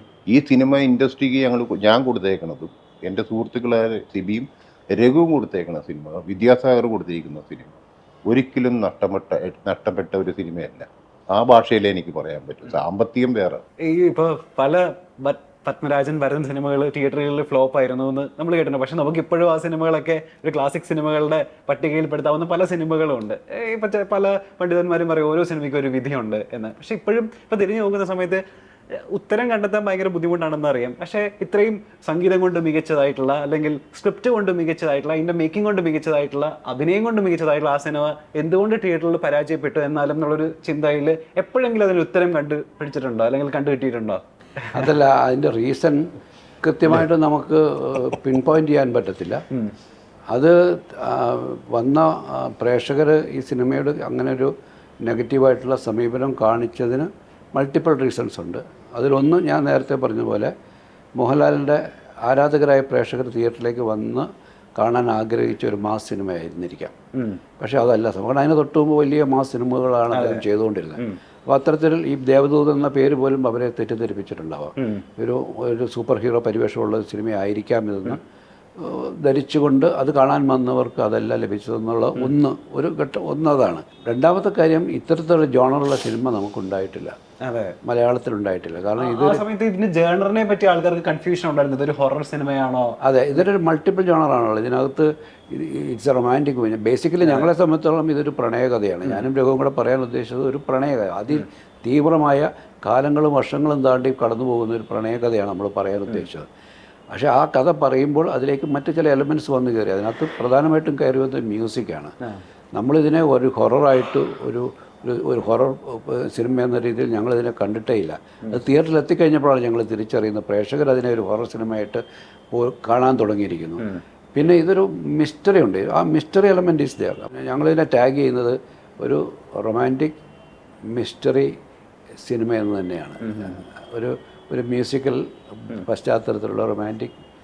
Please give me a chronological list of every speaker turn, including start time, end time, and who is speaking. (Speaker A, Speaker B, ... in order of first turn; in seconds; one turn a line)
Speaker A: 0.3-13.6
Speaker B: 13.8-44.9
Speaker C: 44.7-49.4
Speaker C: 50.3-54.5
Speaker C: 55.0-60.5
Speaker C: 61.2-66.9
Speaker B: 67.1-67.4
Speaker C: 67.6-78.2
Speaker B: 70.1-70.4
Speaker B: 74.8-75.0
Speaker C: 78.8-87.2
Speaker B: 87.4-87.8
Speaker C: 87.8-89.4
Speaker B: 89.0-93.0
Speaker C: 93.0-106.5
Speaker B: 97.2-97.5
Speaker C: 107.1-112.1
Speaker C: 112.7-130.2
Speaker C: 130.8-131.6
Speaker C: 132.2-137.1
Speaker B: 133.2-133.6